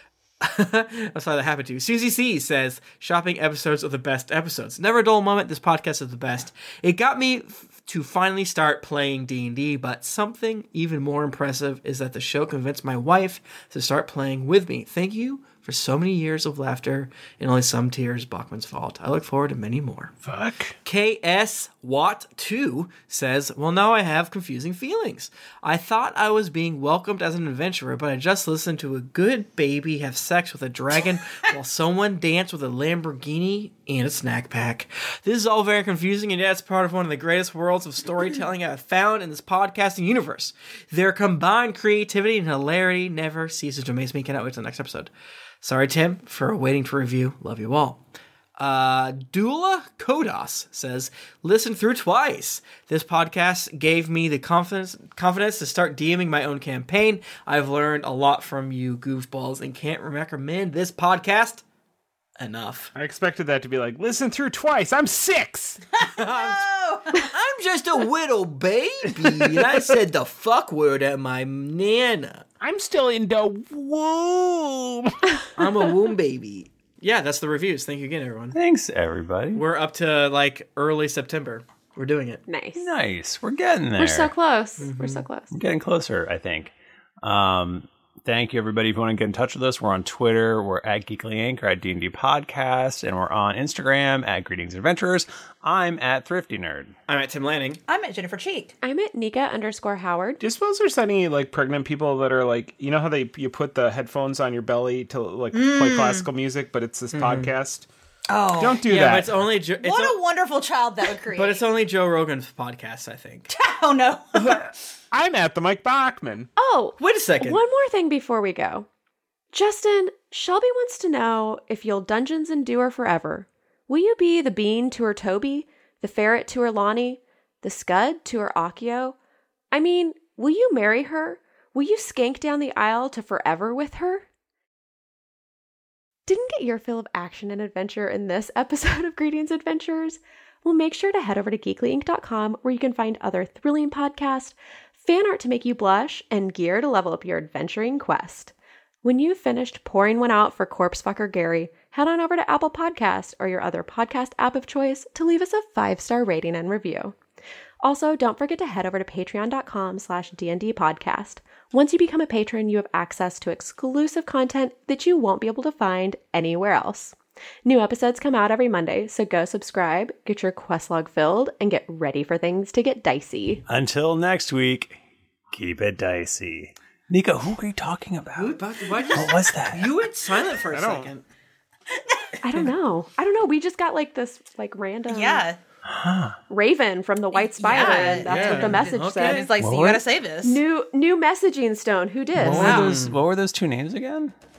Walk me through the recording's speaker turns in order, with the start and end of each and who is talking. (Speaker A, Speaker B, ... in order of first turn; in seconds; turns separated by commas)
Speaker A: 0.4-20.1, Speaker B: 20.3-20.7, Speaker A: 20.8-45.1, Speaker A: 45.6-48.0, Speaker A: 48.6-61.6, Speaker A: 62.4-62.9, Speaker B: 63.0-65.8, Speaker C: 66.0-67.3, Speaker A: 66.2-66.6, Speaker A: 67.2-72.4, Speaker B: 72.6-75.2, Speaker A: 75.6-78.6, Speaker D: 78.5-79.6, Speaker A: 79.5-82.4, Speaker E: 82.5-82.9, Speaker D: 82.8-84.3, Speaker E: 84.0-85.5, Speaker A: 84.8-85.3, Speaker D: 85.5-96.9, Speaker A: 97.1-97.8, Speaker C: 97.9-98.8, Speaker E: 98.8-100.4, Speaker B: 100.4-107.9, Speaker C: 105.5-106.3, Speaker A: 107.1-107.5, Speaker C: 108.3-108.9, Speaker B: 108.5-109.4, Speaker A: 108.9-110.2, Speaker C: 109.8-111.6, Speaker A: 111.3-113.5, Speaker C: 113.5-114.6, Speaker B: 114.4-116.5, Speaker E: 116.6-118.9, Speaker A: 117.0-117.6, Speaker E: 119.5-129.2, Speaker E: 129.7-134.2, Speaker E: 136.3-148.5, Speaker E: 149.0-157.2, Speaker E: 157.8-173.6, Speaker D: 173.7-175.0, Speaker D: 175.5-178.6, Speaker A: 178.4-181.2, Speaker D: 179.1-179.9, Speaker B: 180.7-181.1, Speaker E: 182.4-185.5, Speaker C: 185.1-185.6, Speaker D: 185.9-186.4, Speaker E: 186.5-189.5, Speaker C: 187.3-190.6, Speaker A: 187.8-189.6, Speaker B: 188.3-188.7, Speaker D: 189.6-190.0, Speaker E: 190.4-192.9, Speaker D: 192.3-194.3, Speaker A: 192.5-193.2